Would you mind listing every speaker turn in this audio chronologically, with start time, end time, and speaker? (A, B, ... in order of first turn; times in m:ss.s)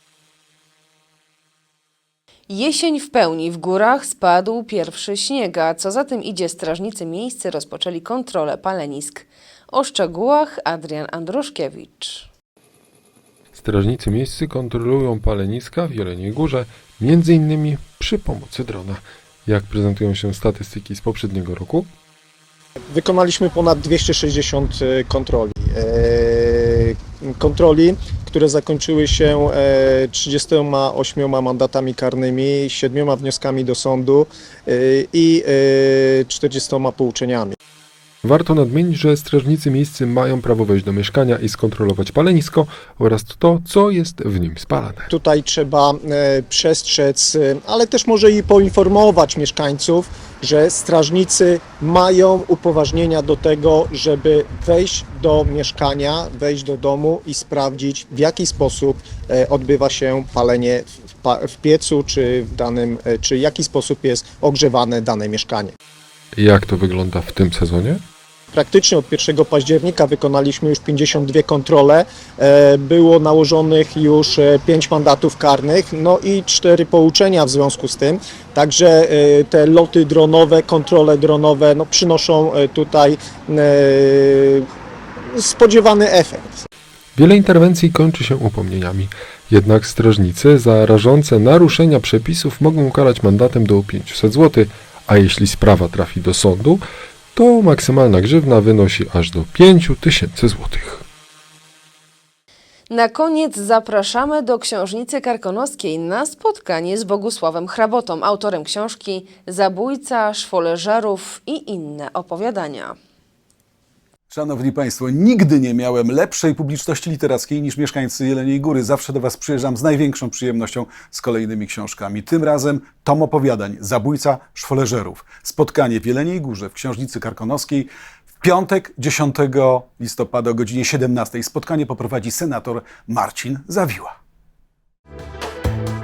0:02.5-0:12.3 A
0:13.5-0:21.9 B
0:22.9-0:37.6 C
0:38.2-0:45.1 B
0:45.1-1:05.7 C
1:06.4-1:08.0 B
1:08.5-1:24.7 C
1:25.3-1:26.6 C
1:27.2-1:36.8 B
1:37.4-1:41.0 B
1:42.9-1:53.0 A
1:54.3-2:14.1 D